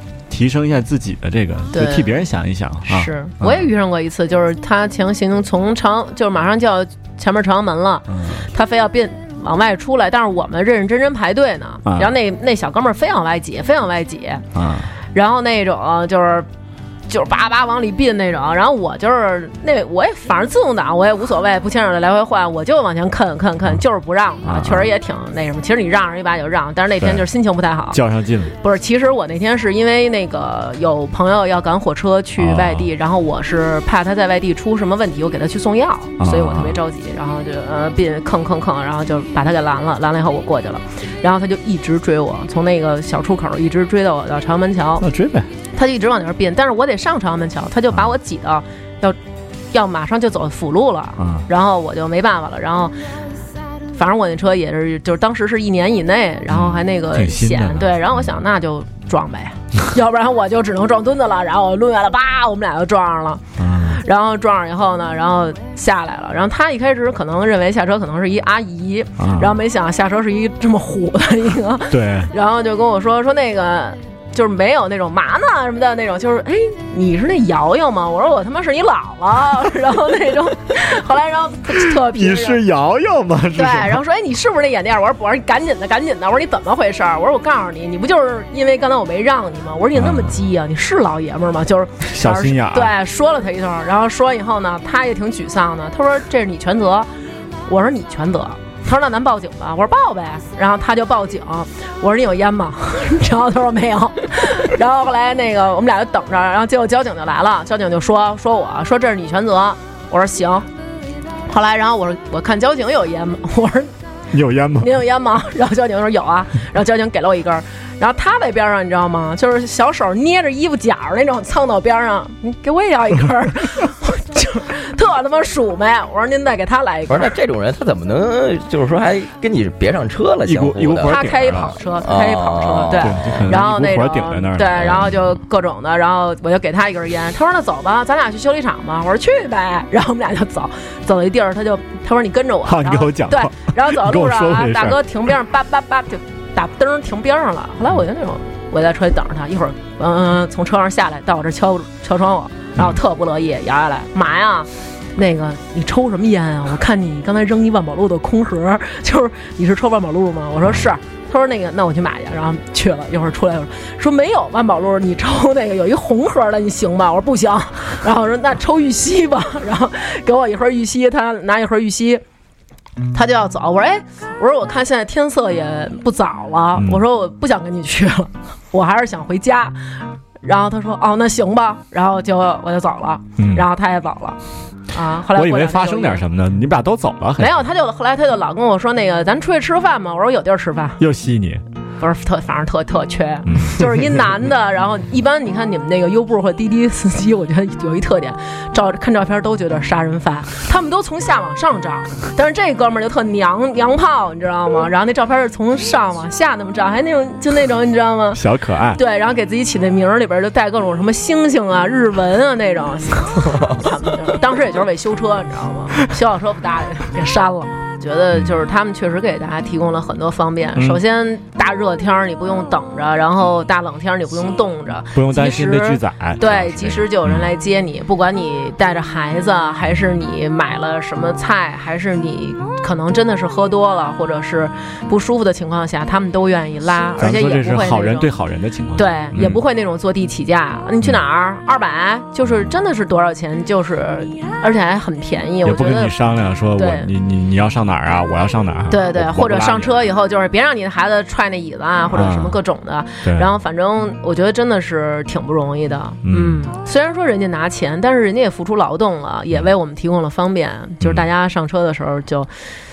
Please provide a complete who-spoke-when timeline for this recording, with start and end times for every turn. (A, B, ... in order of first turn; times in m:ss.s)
0:00.3-0:03.7 A
0:01.7-0:02.1 B
0:02.9-0:14.4 B
0:08.1-0:08.4 A
0:11.9-0:12.1 A
0:14.6-0:14.9 A
0:15.1-0:16.5 B
0:17.1-0:28.0 B
0:24.4-0:24.9 A
0:27.0-0:27.3 A
0:27.9-0:28.5 A
0:28.6-0:45.1 B
0:32.4-0:32.9 A
0:36.2-0:36.8 A
0:45.0-0:45.5 A
0:45.7-0:49.2 B
0:49.7-0:53.0 B
0:51.2-0:51.4 A
0:53.9-1:22.6 B
0:56.5-0:58.3 A
1:03.6-1:04.0 A
1:09.2-1:09.6 A
1:11.9-1:12.3 A
1:22.0-1:24.0 A
1:23.6-1:37.1 B
1:30.0-1:30.4 A
1:32.1-1:32.9 A
1:37.6-1:50.7 B
1:51.4-1:53.9 B
1:54.3-1:54.9 A
1:54.8-2:07.4 B
2:07.1-2:11.3 C
2:10.4-2:11.8 A
2:11.0-2:52.2 B
2:11.9-2:13.6 C
2:13.0-2:15.1 A
2:22.6-2:25.0 A
2:53.1-3:04.4 B
2:56.8-2:57.0 A
3:03.4-3:03.6 A
3:04.9-3:06.2 B
3:05.4-3:07.6 A
3:07.4-3:11.0 B
3:11.0-3:11.6 A
3:12.0-3:28.4 B
3:13.4-3:13.9 A
3:28.3-3:29.0 A
3:28.9-3:58.3 B
3:45.2-3:47.5 A
3:57.2-3:59.6 A
3:59.0-4:06.2 B
4:05.6-4:10.0 A
4:06.7-4:07.1 B
4:08.9-4:22.5 B
4:12.1-4:12.6 A
4:13.2-4:13.5 A
4:16.2-4:16.6 A